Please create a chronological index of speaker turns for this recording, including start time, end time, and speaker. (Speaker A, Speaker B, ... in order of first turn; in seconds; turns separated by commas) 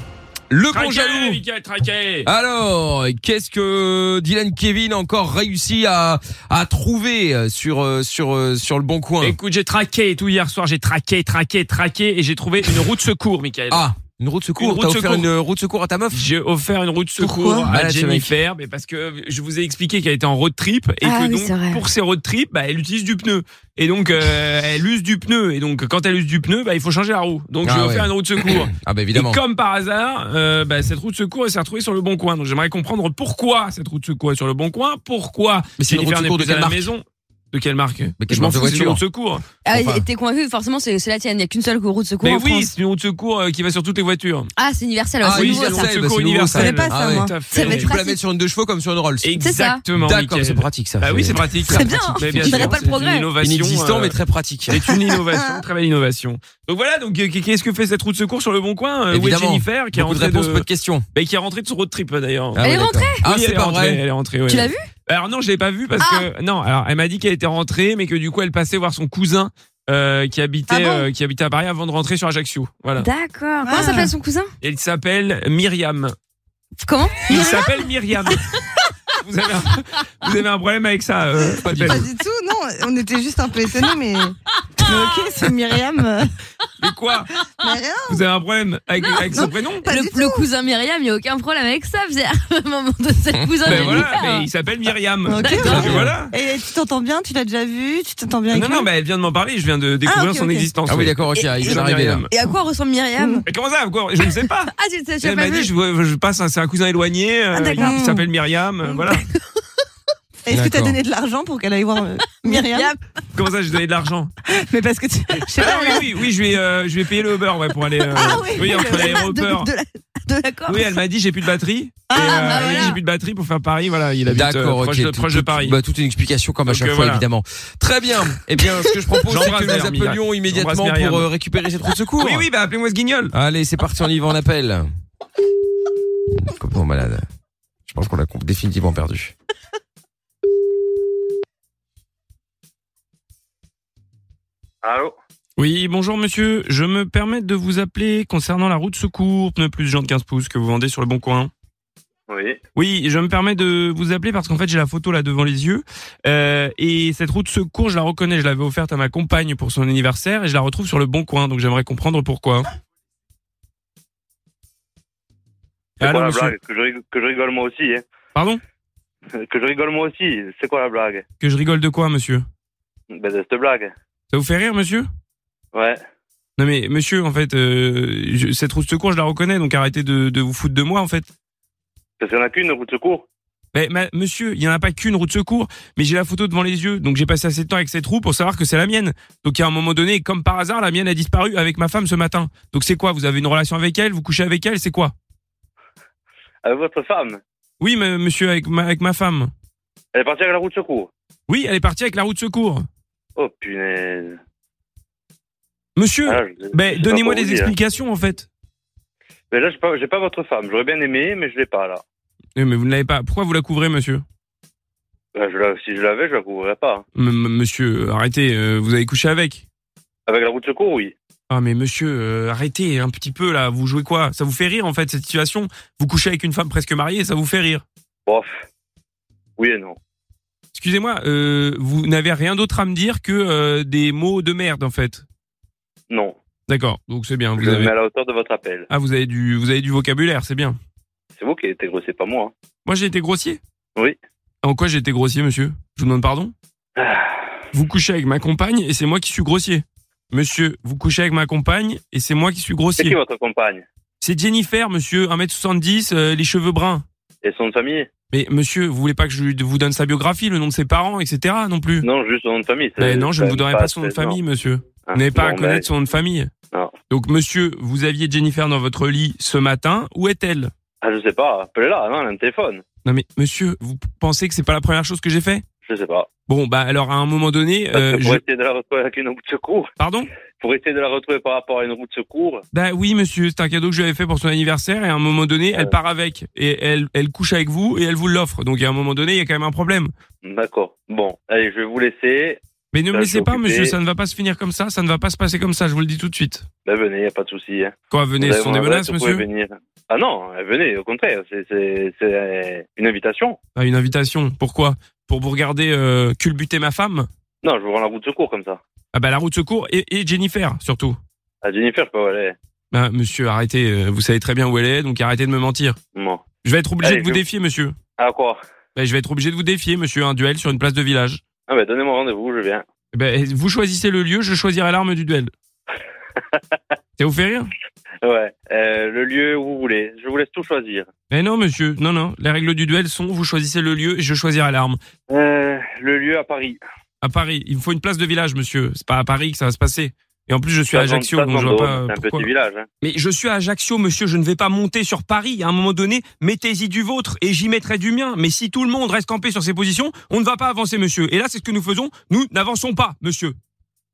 Speaker A: 0.5-1.4, Speaker B: 0.7-2.3, Speaker A: 2.2-9.4, Speaker B: 9.2-13.9, Speaker A: 13.7-16.3, Speaker B: 14.6-15.3, Speaker B: 16.1-39.5, Speaker C: 17.2-17.6, Speaker A: 17.4-18.4, Speaker C: 21.0-21.8, Speaker A: 27.6-29.4, Speaker A: 35.8-36.9, Speaker A: 38.2-39.0, Speaker C: 39.6-42.7, Speaker A: 39.7-40.0, Speaker B: 42.2-44.5, Speaker C: 44.6-45.9, Speaker A: 45.2-49.4, Speaker B: 45.3-48.0, Speaker D: 46.5-47.7, Speaker C: 47.5-48.2, Speaker B: 49.2-73.1, Speaker C: 49.4-49.8, Speaker A: 49.9-52.8, Speaker C: 51.6-53.3, Speaker D: 51.8-52.7, Speaker A: 53.4-55.0, Speaker D: 54.9-55.6, Speaker A: 59.1-61.0, Speaker A: 62.6-64.0, Speaker C: 62.6-63.2, Speaker C: 64.5-64.8, Speaker C: 66.0-66.3, Speaker C: 73.0-74.5, Speaker D: 73.6-74.2, Speaker B: 74.6-76.1, Speaker C: 76.8-78.4, Speaker B: 77.3-78.4, Speaker B: 79.1-82.1, Speaker A: 81.6-82.0, Speaker D: 81.9-86.3, Speaker C: 84.9-85.5, Speaker B: 86.8-87.5, Speaker D: 87.6-88.2, Speaker B: 88.1-89.8, Speaker C: 89.0-94.5, Speaker D: 89.2-90.5, Speaker A: 93.4-94.1, Speaker B: 93.6-96.3, Speaker D: 95.2-98.9, Speaker C: 95.4-95.9, Speaker A: 95.6-96.2, Speaker B: 98.5-102.3, Speaker D: 100.0-100.7, Speaker A: 100.8-102.3, Speaker C: 101.3-103.4, Speaker D: 103.2-103.4, Speaker B: 103.5-109.2, Speaker C: 104.2-105.7, Speaker C: 107.5-108.1, Speaker D: 107.8-108.2, Speaker D: 108.8-109.2, Speaker D: 110.4-112.9, Speaker A: 110.5-111.0, Speaker C: 112.3-113.0, Speaker B: 113.3-114.3, Speaker D: 114.4-116.1, Speaker B: 115.6-119.7, Speaker C: 115.6-116.0, Speaker D: 117.9-119.8, Speaker C: 118.3-119.7, Speaker C: 120.3-121.0, Speaker B: 120.7-125.8, Speaker D: 122.1-122.3, Speaker C: 122.1-123.0, Speaker A: 124.3-132.4, Speaker B: 126.7-127.2, Speaker B: 129.3-131.3, Speaker B: 132.2-133.3, Speaker A: 133.3-134.9, Speaker A: 136.3-137.2, Speaker A: 137.9-139.3, Speaker E: 144.8-145.2, Speaker B: 145.6-151.5, Speaker E: 152.3-152.6, Speaker B: 152.8-162.7, Speaker B: 166.0-166.5, Speaker E: 166.0-168.0, Speaker B: 168.3-168.6, Speaker E: 169.4-171.2, Speaker B: 171.4-172.4, Speaker E: 173.1-173.9, Speaker B: 174.3-175.1, Speaker E: 175.7-176.0, Speaker B: 176.6-181.3, Speaker E: 182.2-183.2, Speaker B: 183.7-195.1, Speaker E: 196.6-197.4, Speaker B: 197.8-199.5, Speaker E: 200.1-201.1, Speaker B: 201.5-202.8, Speaker E: 203.4-204.4, Speaker B: 206.0-208.5, Speaker E: 206.2-207.7, Speaker E: 209.5-212.0, Speaker B: 212.6-214.2, Speaker E: 215.3-217.0, Speaker B: 217.1-219.6, Speaker E: 220.3-221.1, Speaker B: 221.5-227.8, Speaker E: 228.2-228.5, Speaker E: 229.6-230.0, Speaker B: 230.7-235.2, Speaker E: 236.1-236.3, Speaker B: 236.7-237.9, Speaker E: 237.6-238.9, Speaker B: 238.9-240.8, Speaker E: 241.4-242.5, Speaker B: 242.8-243.6, Speaker B: 244.6-246.5, Speaker E: 247.0-247.5, Speaker B: 247.7-253.2, Speaker E: 253.0-253.8, Speaker B: 254.2-257.0, Speaker E: 257.4-258.1, Speaker B: 258.3-262.1, Speaker E: 262.0-264.4, Speaker B: 263.0-266.5, Speaker E: 265.1-265.9, Speaker B: 267.1-270.7, Speaker E: 271.0-272.8, Speaker B: 273.0-275.6, Speaker E: 275.9-276.3, Speaker B: 276.5-278.4, Speaker E: 277.9-279.9, Speaker B: 280.0-280.3, Speaker E: 280.6-282.6, Speaker B: 282.7-290.1, Speaker E: 290.4-293.9, Speaker B: 292.9-296.6, Speaker E: 296.9-303.6, Speaker B: 298.1-299.4, Speaker B: 303.7-307.3, Speaker E: 307.6-308.8, Speaker B: 309.1-311.2, Speaker E: 311.6-312.6, Speaker B: 312.9-316.0, Speaker E: 316.1-316.4, Speaker B: 316.6-317.9, Speaker E: 317.0-317.4, Speaker E: 318.2-318.6, Speaker B: 318.9-321.4, Speaker E: 321.7-322.8, Speaker B: 323.1-325.5, Speaker B: 327.2-327.7, Speaker E: 328.2-331.1, Speaker B: 331.3-335.0, Speaker E: 335.3-336.8, Speaker B: 337.2-342.5, Speaker E: 340.9-342.9, Speaker B: 343.0-353.6